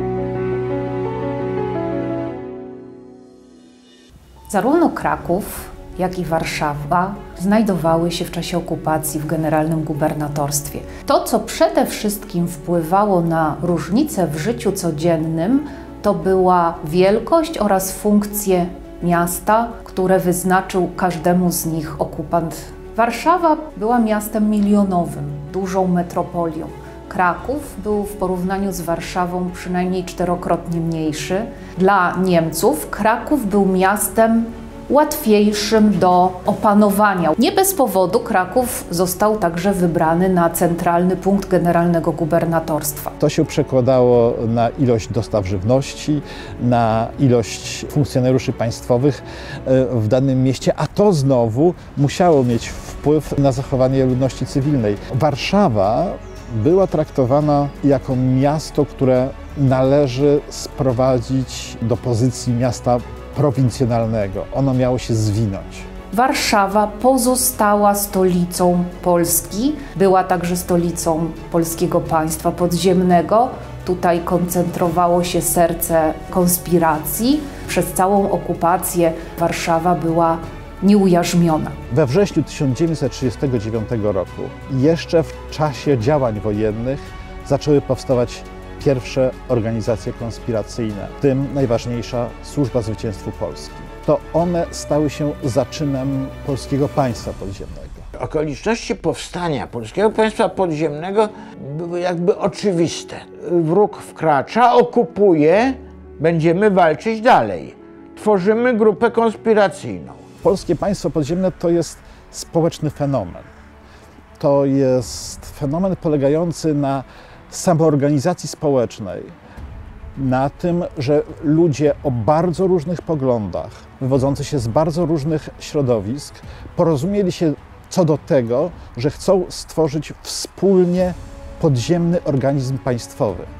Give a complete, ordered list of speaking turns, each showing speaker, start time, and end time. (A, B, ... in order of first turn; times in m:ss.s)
0:04.5-0:43.2 A
0:43.2-1:05.9 B
1:06.1-1:21.8 A
1:21.9-1:38.1 B
1:38.2-1:50.2 C
1:50.4-1:53.5 B
1:54.4-1:59.3 B
2:00.1-2:13.5 B